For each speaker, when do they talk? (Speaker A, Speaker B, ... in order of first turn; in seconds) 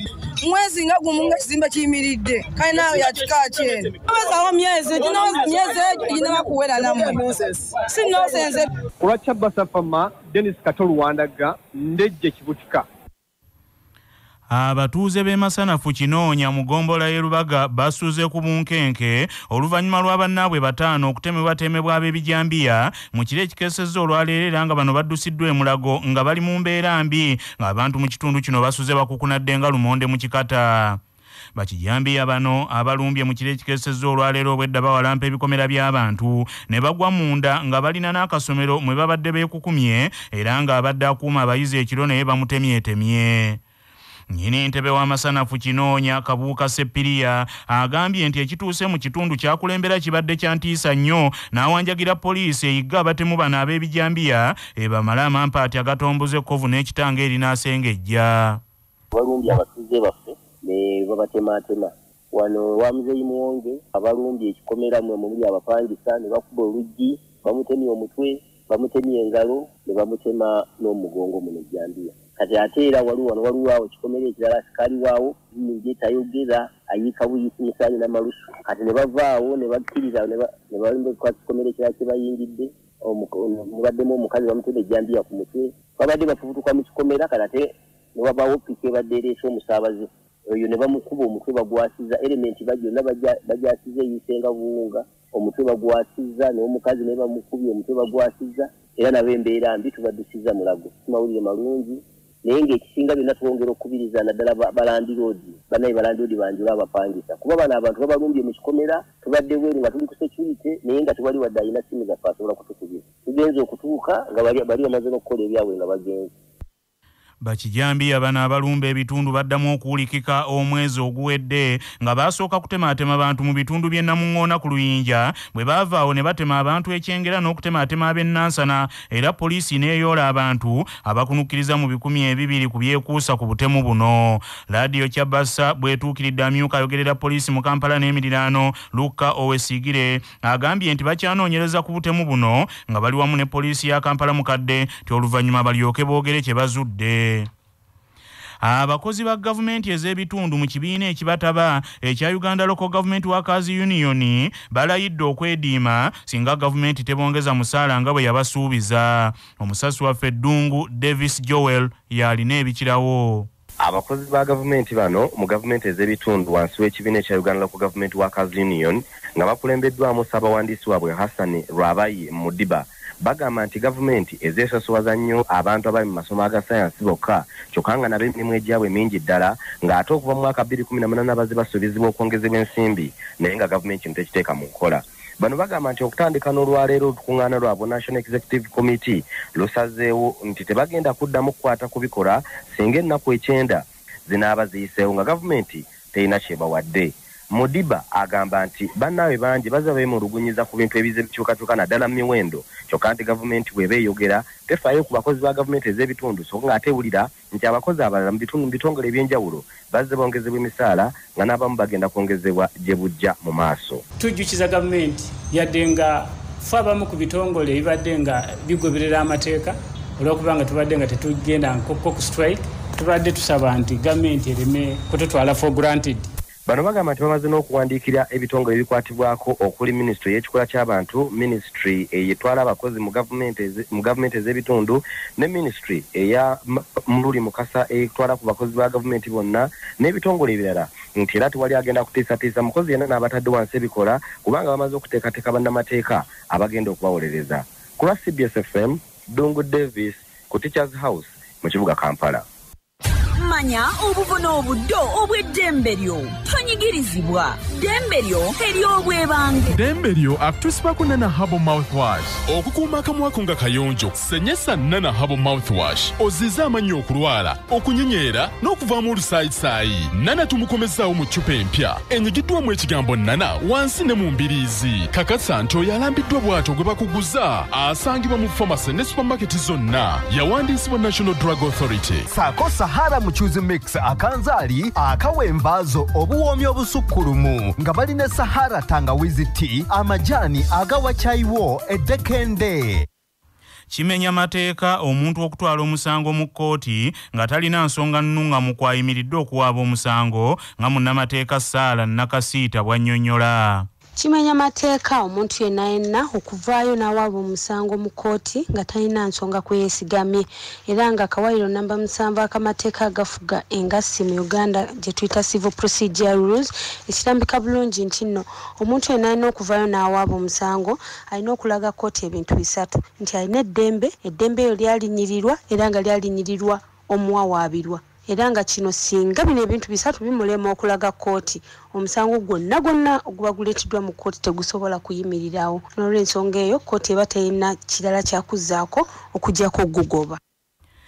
Speaker A: 0.4-8.7
Speaker B: 9.0-12.8
Speaker C: 14.5-31.0, 31.6-43.6, 44.3-58.6, 117.4-147.5, 148.6-163.5, 293.9-303.9
Speaker D: 59.1-116.3
Speaker E: 163.8-214.0, 226.7-252.4
Speaker F: 214.2-226.3
Speaker G: 253.4-259.8
Speaker H: 259.7-282.3
Speaker I: 282.3-293.1
Speaker J: 304.2-340.4